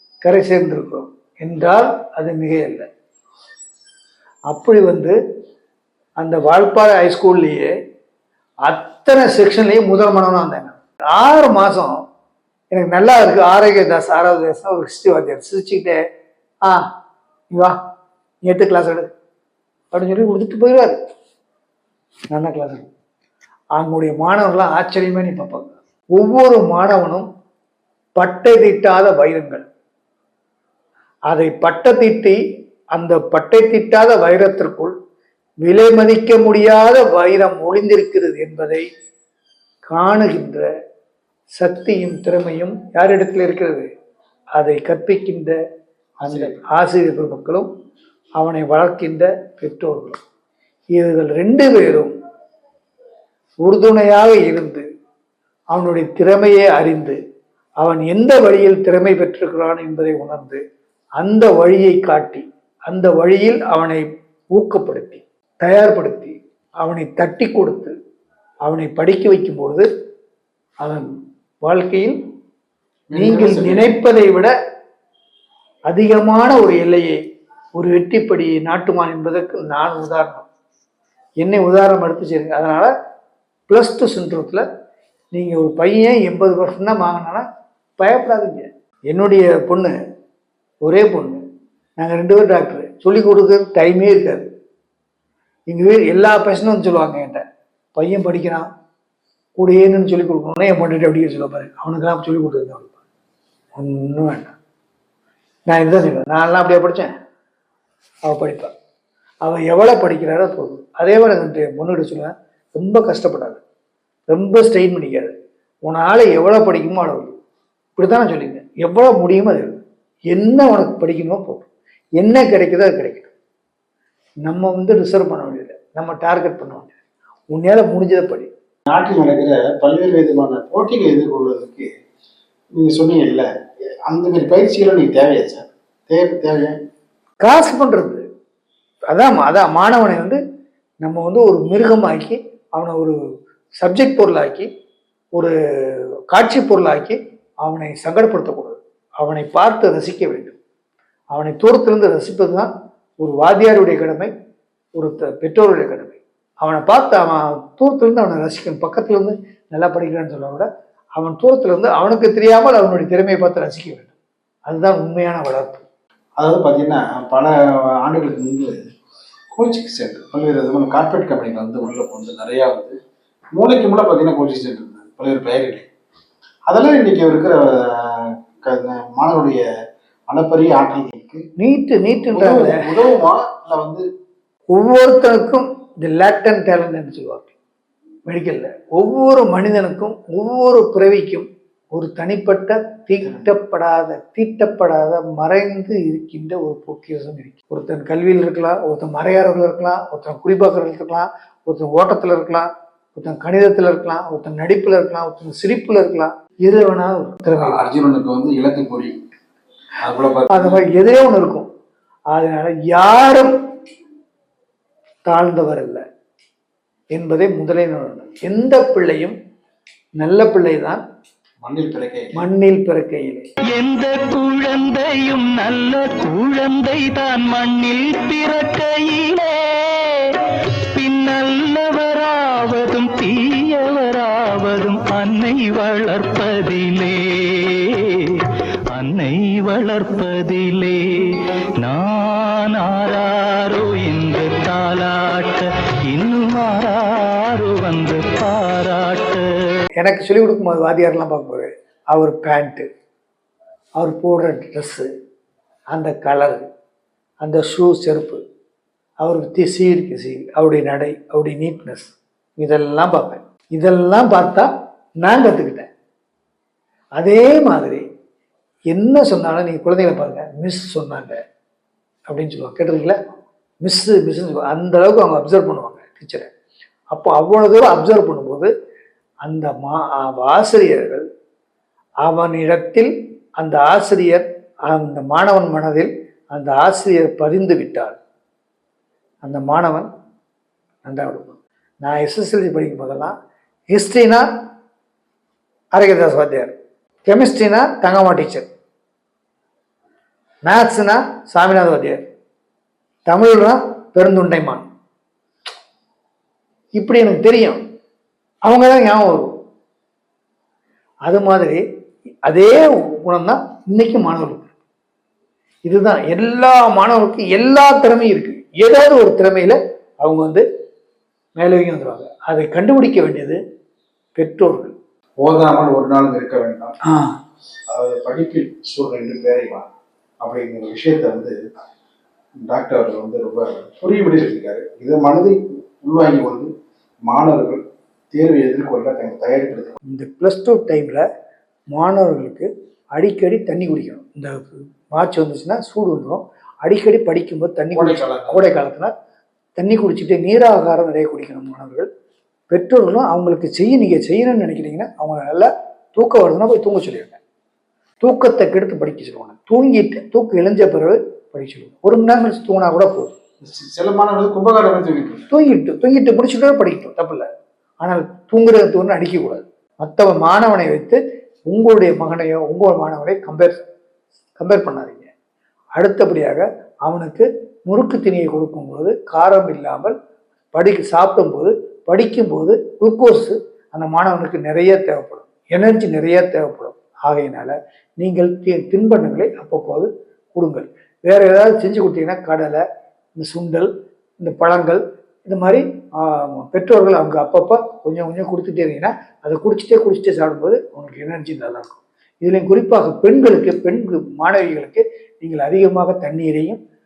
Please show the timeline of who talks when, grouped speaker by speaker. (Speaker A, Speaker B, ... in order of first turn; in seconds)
Speaker A: 0.2-2.9, 4.5-5.2, 6.2-7.7, 8.6-11.9, 12.7-16.0, 18.4-19.1, 19.9-21.0, 22.3-22.9, 23.8-27.3, 28.1-29.6, 31.3-32.4, 32.9-34.9, 35.6-38.8, 39.9-40.6, 41.5-43.9, 44.5-45.5, 46.2-47.7, 48.4-50.2, 50.9-52.1, 53.6-54.8, 55.7-57.2, 57.8-60.6, 61.2-67.9, 68.6-69.8, 70.8-71.1, 71.6-72.2, 73.1-74.5, 75.9-77.2, 77.7-80.5, 81.4-82.9, 83.7-84.6, 85.3-87.4, 88.0-89.9, 90.8-91.4, 92.0-94.5, 95.7-97.4, 97.9-98.6, 99.5-102.9, 103.8-104.5, 105.7-107.1, 108.2-108.7, 109.4-113.6, 114.3-117.3, 118.0-119.8, 120.3-121.7, 122.2-123.3, 124.4-126.9, 127.5-128.5, 137.4-138.2, 139.1-140.4, 141.0-143.2, 143.8-144.7, 145.3-150.6, 151.3-154.3, 154.9-164.1, 164.7-165.8, 181.6-182.8, 184.7-187.5, 188.3-207.8, 210.5-211.7, 212.3-213.5, 215.2-216.0, 217.1-219.3, 220.2-221.0, 222.3-223.4, 250.0-252.8, 254.0-255.1, 255.9-256.6, 257.4-258.4, 259.2-264.7, 265.2-265.9, 267.2-268.0, 268.9-271.3, 272.3-273.1, 273.8-276.5, 277.1-278.7, 279.4-281.2, 282.2-288.2, 289.4-290.1, 291.0-293.3, 293.9-294.4, 295.9-296.7, 297.2-298.7, 300.6-302.2, 303.2-304.8, 306.9-307.8, 308.6-309.5, 311.2-311.8, 312.4-314.7, 315.9-320.6, 321.6-323.6, 324.4-324.9, 327.0-327.3, 340.1-341.2, 341.9-349.1, 349.8-352.1, 352.7-357.4, 358.2-363.4, 365.5-367.4, 368.0-373.8, 374.6-375.3, 375.9-380.1, 380.7-392.8, 393.3-406.8
Speaker B: 46.2-46.6, 73.1-73.9, 128.9-131.9, 132.7-133.5, 134.1-136.8, 166.4-168.7, 169.5-172.9, 173.6-175.9, 176.7-179.6, 180.3-181.4, 182.3-184.0, 193.2-193.5, 207.6-209.1, 210.0-210.8, 221.6-222.4, 325.4-326.9, 327.9-329.9, 330.4-331.5, 332.6-336.7, 337.2-337.8, 338.3-339.9, 347.9-348.6, 363.6-365.5
Speaker C: 223.7-230.4, 230.9-249.8